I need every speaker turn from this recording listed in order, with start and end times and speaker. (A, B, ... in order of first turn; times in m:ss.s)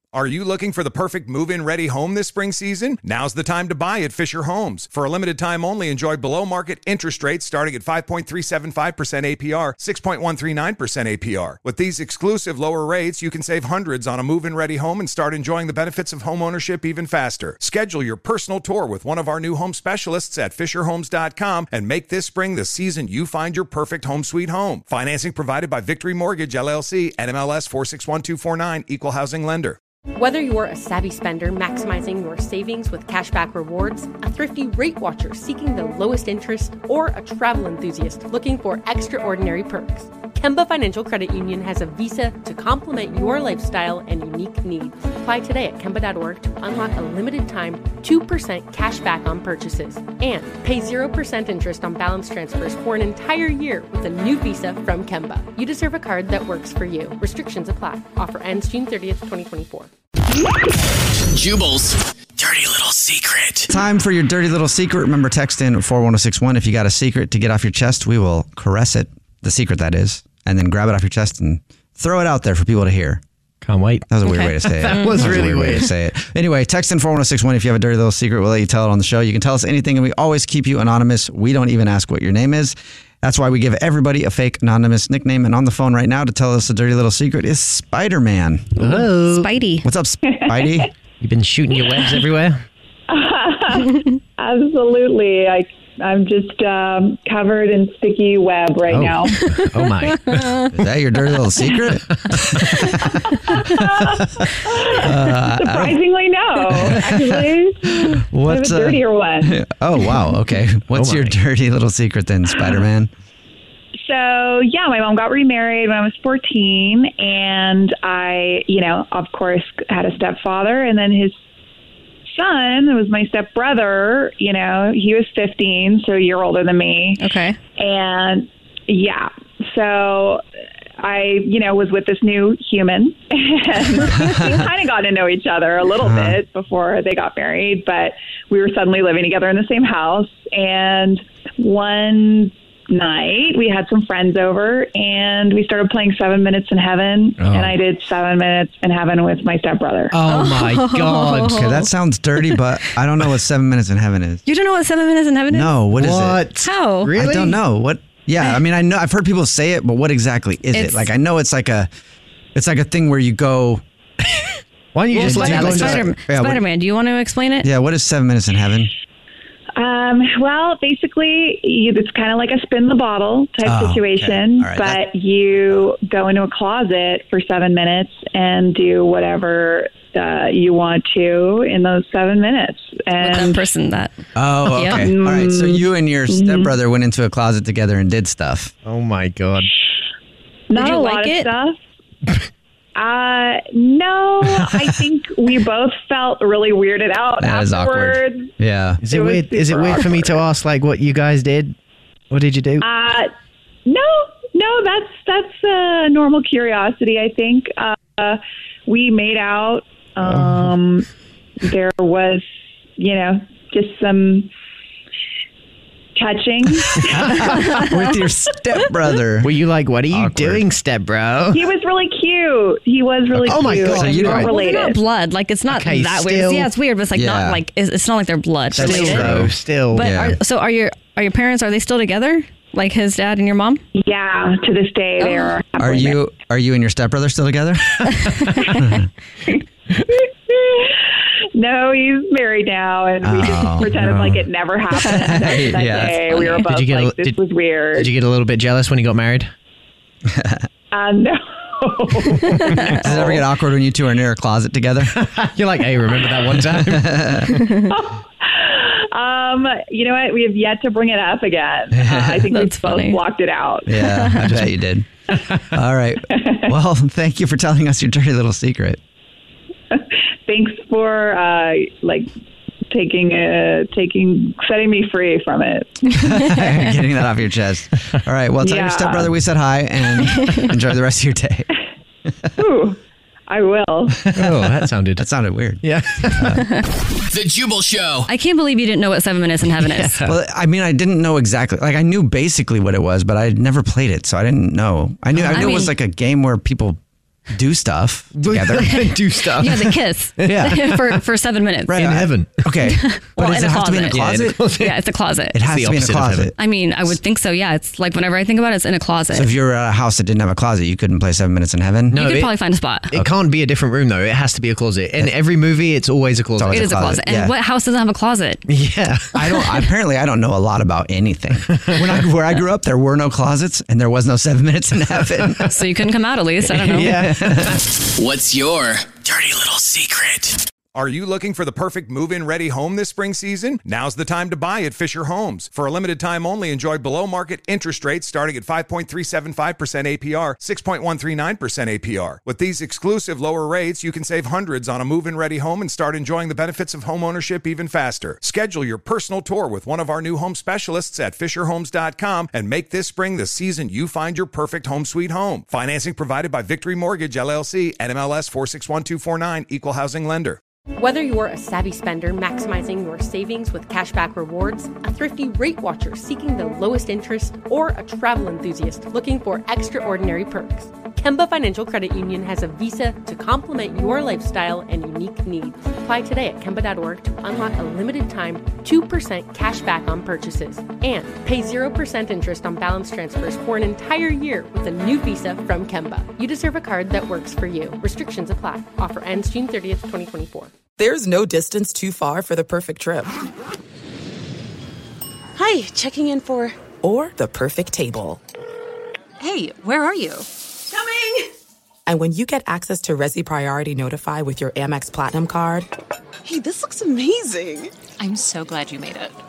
0:00.1-0:29.8 A
0:30.1-0:59.9 B
1:01.2-1:03.7 C
1:03.7-1:13.2 D
1:13.6-1:14.0 E
1:14.1-1:29.1 D
1:14.2-1:15.3 F
1:14.8-1:15.8 E
1:28.8-1:29.5 E
1:29.2-1:29.9 F
1:29.8-1:30.9 D
1:30.3-1:30.9 G
1:31.2-1:32.5 E
1:31.7-1:39.5 G
1:38.9-1:40.3 E
1:39.3-1:40.6 F
1:40.7-1:43.5 D
1:43.0-1:49.6 G
1:45.0-1:46.0 D
1:46.8-1:53.1 D
1:50.9-1:51.3 E
1:54.0-2:01.4 G
2:02.3-2:10.4 G
2:07.2-2:07.6 F
2:11.0-2:30.4 G
2:16.0-2:16.4 D
2:30.1-2:31.5 E
2:30.2-2:31.9 F
2:31.5-2:34.4 D
2:34.5-2:35.9 F
2:35.5-2:36.5 D
2:36.0-2:37.6 E
2:36.5-2:37.2 F
2:37.1-2:41.9 D
2:40.7-2:41.1 F
2:42.6-2:43.8 D
2:44.9-2:45.9 E
2:45.1-2:46.6 D
2:45.2-2:47.7 F
2:47.6-2:48.9 D
2:49.8-3:03.7 G
2:53.6-2:55.8 D
3:03.2-3:04.2 F
3:04.4-3:08.7 D
3:04.7-3:05.1 F
3:04.8-3:06.7 G
3:08.8-3:09.7 E
3:10.7-3:11.8 G
3:10.8-3:11.5 F
3:13.0-3:18.5 G
3:17.4-3:19.0 D
3:19.0-3:21.7 E
3:19.0-3:21.8 G
3:22.3-3:23.3 G
3:22.3-3:22.9 E
3:23.8-3:31.1 G
3:30.2-3:30.6 E
3:31.6-3:32.4 G
3:33.0-3:34.5 G
3:36.2-3:37.7 G
3:37.0-3:39.5 D
3:39.4-3:41.7 E
3:40.1-3:40.7 D
3:41.5-3:45.1 G
3:43.3-3:44.5 D
3:43.5-3:44.3 E
3:44.2-3:53.8 F
3:45.7-3:46.7 E
3:47.1-3:47.6 D
3:48.7-3:50.4 D
3:48.8-3:50.0 E
3:53.9-3:56.2 G
3:55.2-3:55.6 F
3:55.8-3:59.0 D
3:58.5-3:58.8 F
4:00.1-4:01.0 G
4:01.5-4:08.2 G
4:03.2-4:04.4 D
4:05.0-4:06.3 D
4:06.3-4:06.7 F
4:06.7-4:07.4 E
4:08.0-4:09.4 E
4:08.8-4:09.5 G
4:10.3-4:10.6 D
4:10.9-4:13.5 G
4:13.0-4:15.1 D
4:15.1-4:17.1 E
4:16.1-4:16.4 G
4:16.6-4:17.6 D
4:17.9-4:23.9 G
4:21.9-4:22.5 D
4:22.5-4:23.2 F
4:23.9-4:25.1 D
4:24.0-4:24.4 F
4:25.6-4:29.0 D
4:26.3-4:26.6 G
4:29.9-4:32.3 G
4:32.9-4:36.1 G
4:36.2-4:41.7 D
4:38.6-4:39.3 G
4:42.6-4:44.3 G
4:44.3-4:45.8 D
4:44.3-4:45.2 E
4:45.8-4:46.4 E
4:46.4-4:46.7 D
4:46.6-4:46.8 F
4:47.3-4:48.3 C
4:48.3-4:50.2 F
4:50.2-4:57.0 D
4:55.5-4:56.0 F
4:57.5-4:59.1 D
4:58.4-4:59.7 E
4:59.5-5:02.0 F
5:00.4-5:00.7 E
5:01.9-5:04.8 D
5:01.9-5:02.6 E
5:02.8-5:05.7 F
5:04.2-5:04.8 E
5:05.5-5:06.6 D
5:05.7-5:06.5 E
5:06.5-5:09.5 F
5:09.3-5:12.3 D
5:12.1-5:12.5 E
5:12.2-5:13.2 F
5:13.2-5:16.7 E
5:16.6-5:17.5 D
5:16.7-5:18.6 F
5:18.7-5:19.2 E
5:19.3-5:25.8 D
5:25.7-5:27.3 F
5:26.9-5:27.9 D
5:28.0-5:30.7 C
5:30.9-6:00.6 A
6:01.0-6:30.7 B
6:31.0-6:33.3 H
6:35.6-6:36.8 I
6:37.0-6:38.4 H
6:39.4-6:41.5 I
6:42.1-6:45.9 H
6:46.4-6:49.4 I